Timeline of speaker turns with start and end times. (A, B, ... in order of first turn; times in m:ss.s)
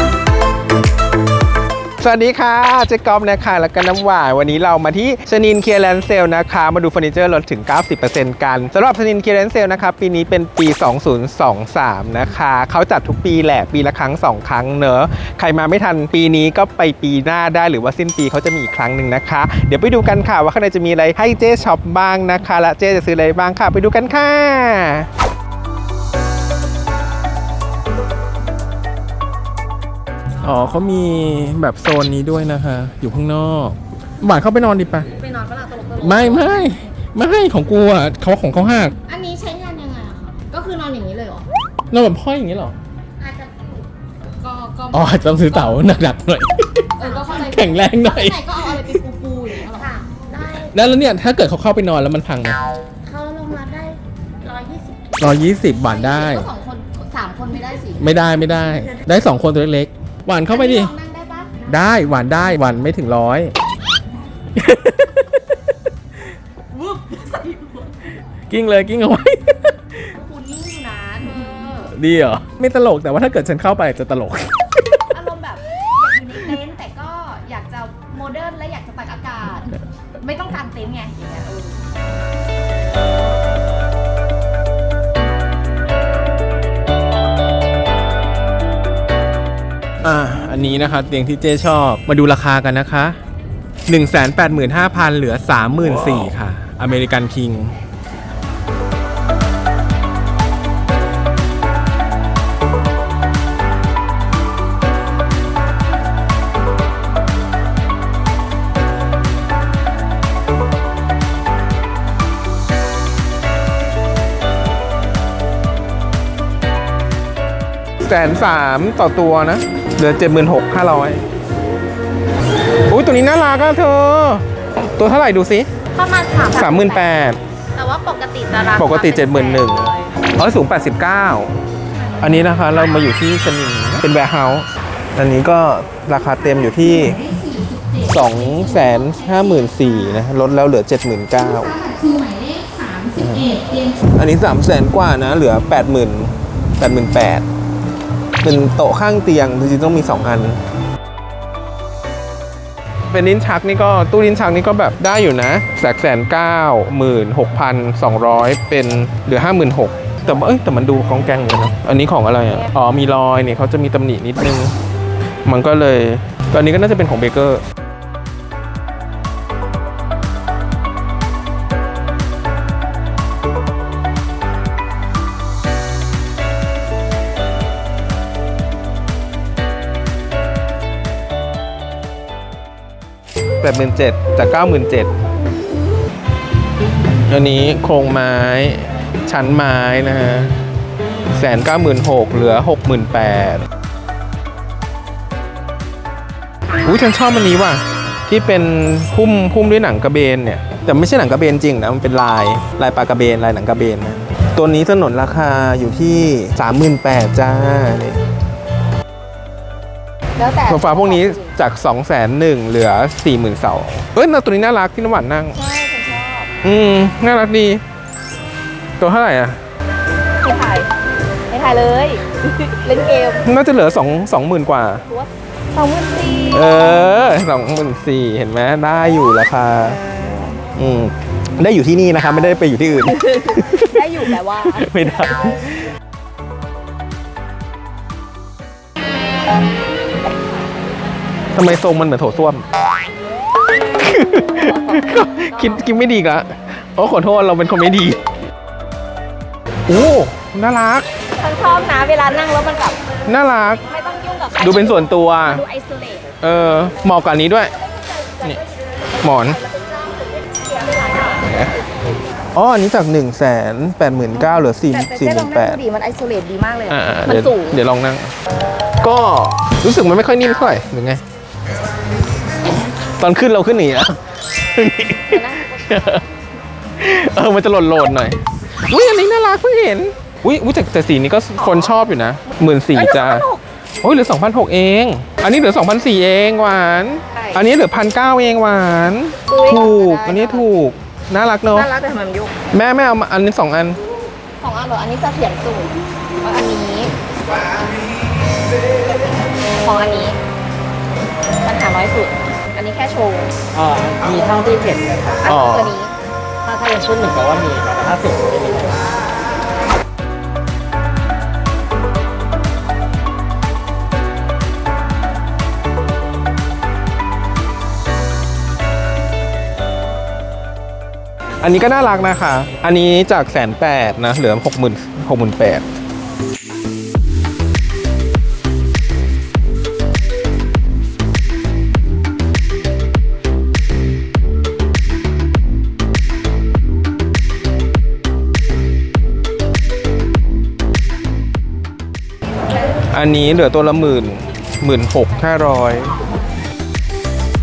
0:02.0-0:25.1 A
0:30.4-0:35.1 A
0:35.1-0:36.8 B
0:36.0-0:38.9 A
0:39.0-0:41.5 B
0:41.9-0:42.8 A
0:43.2-0:45.8 B
0:44.9-0:49.8 A
0:47.0-0:50.7 B
0:50.6-0:52.6 A
0:53.0-0:55.2 B
0:55.2-0:56.5 A
0:55.8-0:58.1 B
0:58.0-1:00.9 A
1:00.5-1:01.7 B
1:01.7-1:03.5 A
1:04.6-1:05.5 A
1:06.7-1:07.9 B
1:08.5-1:10.1 A
1:10.1-1:11.9 B
1:11.8-1:15.0 A
1:15.1-1:21.8 B
1:30.0-1:33.2 A
1:33.9-1:37.8 A
1:58.0-2:01.2 A
2:02.9-2:05.7 A
2:06.0-2:07.1 B
2:06.5-2:07.4 A
2:07.8-2:10.2 B
2:08.8-2:11.5 A
2:12.0-2:12.8 B
2:12.2-2:17.3 A
2:16.8-2:19.9 B
2:18.0-2:21.7 A
2:21.6-2:24.0 B
2:23.1-2:27.5 A
2:28.4-2:30.6 A
2:33.1-2:44.7 A
2:45.4-2:47.6 A
3:03.6-3:05.1 A
3:07.3-3:10.6 A
3:11.3-3:13.6 A
3:16.8-3:28.2 A
3:30.4-3:31.6 B
3:30.7-3:35.6 A
3:35.6-3:36.6 B
3:36.6-3:37.8 A
3:39.0-3:39.6 A
3:40.4-3:40.9 B
3:41.5-3:43.4 B
3:43.4-3:45.0 A
3:45.1-3:46.8 B
3:46.5-3:50.0 A
3:50.6-3:55.8 A
3:53.1-3:55.0 B
4:01.5-4:02.7 A
4:04.0-4:08.2 A
4:04.5-4:05.0 B
4:09.9-4:11.1 A
4:11.4-4:13.0 B
4:13.3-4:13.8 A
4:13.9-4:16.3 B
4:14.6-4:15.6 A
4:16.4-4:17.7 A
4:19.2-4:19.6 A
4:19.6-4:21.5 B
4:21.2-4:21.8 A
4:22.5-4:25.8 A
4:24.4-4:27.8 B
4:26.9-4:28.4 A
4:29.0-4:31.2 A
4:33.0-4:36.2 A
4:35.3-4:36.2 B
4:37.0-4:43.5 A
4:42.9-4:43.6 B
4:44.0-4:51.9 A
4:47.4-4:47.6 B
4:49.5-4:50.7 B
4:51.7-4:52.6 B
4:52.7-4:54.0 A
4:54.6-4:57.2 B
4:59.7-5:00.4 B
5:01.6-5:03.5 B
5:03.7-5:05.5 C
5:05.4-5:06.2 B
5:05.4-5:06.0 A
5:06.6-5:09.0 C
5:21.6-5:25.8 A
5:43.1-5:46.2 A